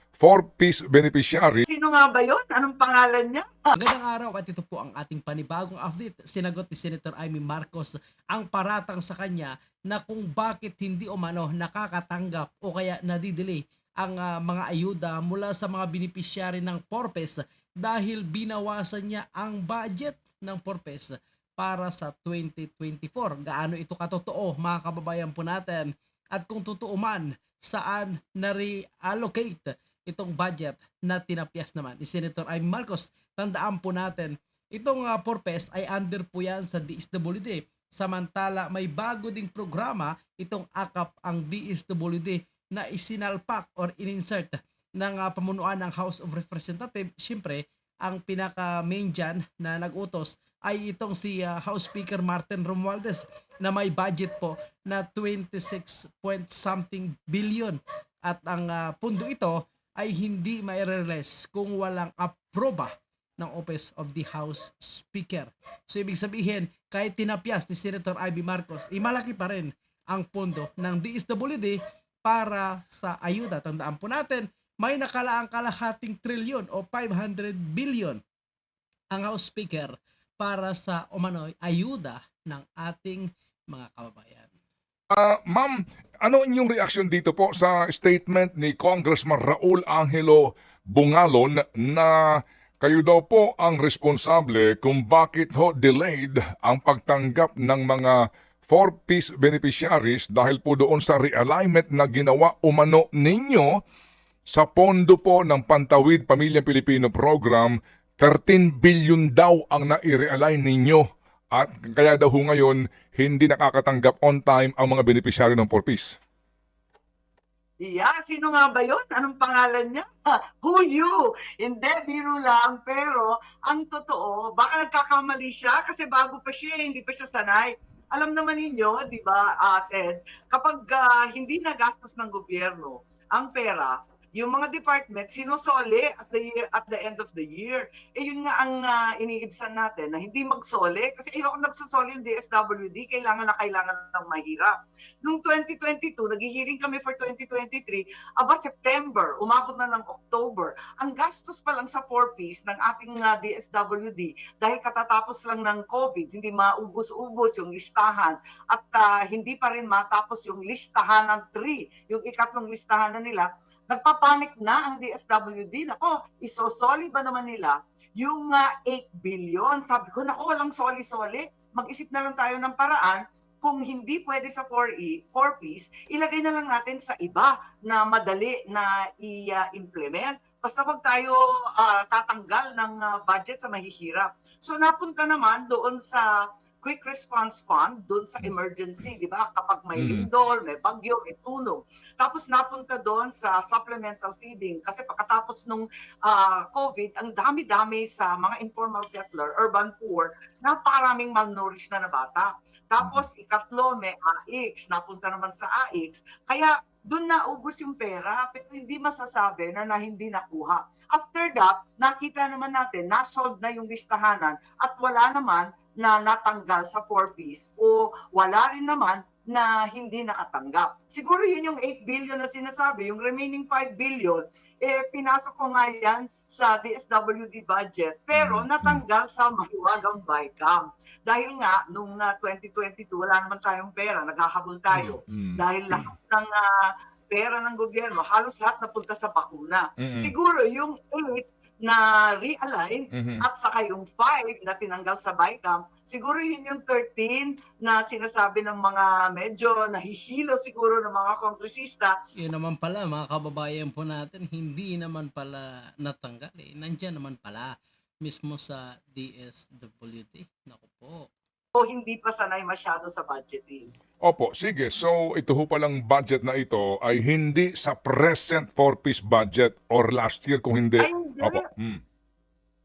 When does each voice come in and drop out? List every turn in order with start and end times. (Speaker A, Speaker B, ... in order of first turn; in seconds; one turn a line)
Speaker A: 0.2-1.6
Speaker B: 1.6-3.7
Speaker C: 3.7-78.2
Speaker C: 79.1-84.5
Speaker A: 85.1-103.7
Speaker A: 104.5-116.1
Speaker B: 117.8-120.1
Speaker B: 120.6-144.7
Speaker B: 145.2-186.2
Speaker B: 186.8-236.6
Speaker A: 190.0-190.2
Speaker A: 228.3-229.0
Speaker A: 234.9-236.1
Speaker B: 237.3-252.1
Speaker A: 240.0-240.3
Speaker A: 243.1-243.4
Speaker C: 252.4-261.3
Speaker B: 261.7-263.8
Speaker A: 264.2-272.0
Speaker B: 271.0-271.7